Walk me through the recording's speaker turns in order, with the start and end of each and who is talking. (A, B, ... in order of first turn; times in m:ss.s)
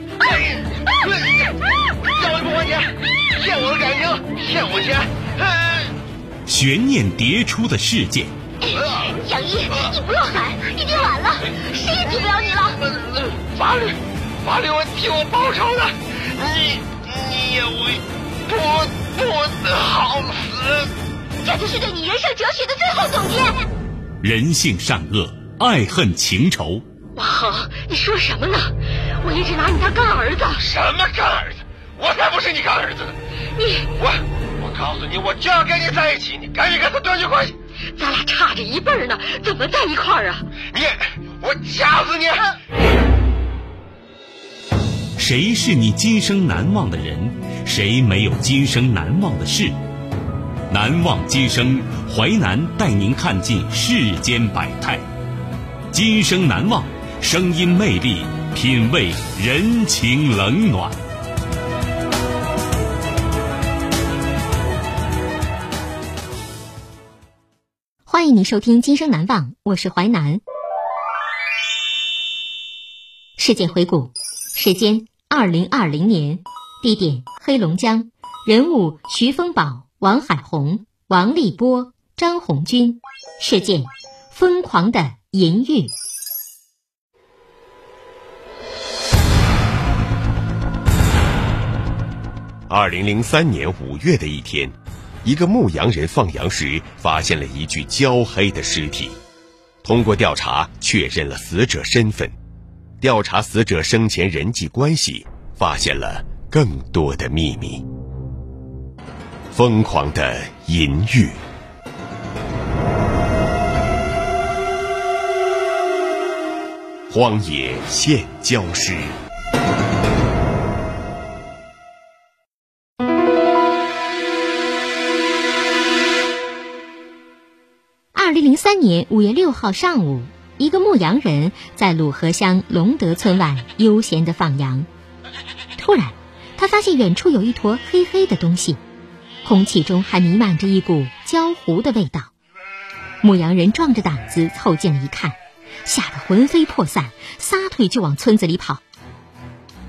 0:00.2-0:05.9 A
0:06.4-0:08.3 B
0:08.6-0:12.8 C
0:12.9-0:20.9 A
0:21.4-0:23.6 C
0:24.2-0:26.8 B
0:27.2-0:30.6 C
0:30.6-0:33.2 A
0:33.6-0:33.9 C
0:33.9-0:37.6 A
0:37.9-0:40.4 C
0:40.7-0:42.5 A
0:45.2-0:49.8 B
0:50.7-0:55.0 B
0:55.9-1:01.0 B
1:08.1-1:10.4 D
1:13.4-1:25.9 D
1:32.7-1:39.2 E
1:39.8-1:42.3 E
1:43.0-1:47.8 E
1:49.5-1:51.4 E
1:57.1-1:59.2 E
2:08.1-2:14.9 D
2:15.8-2:18.8 D
2:19.4-2:22.3 D
2:23.2-2:28.8 D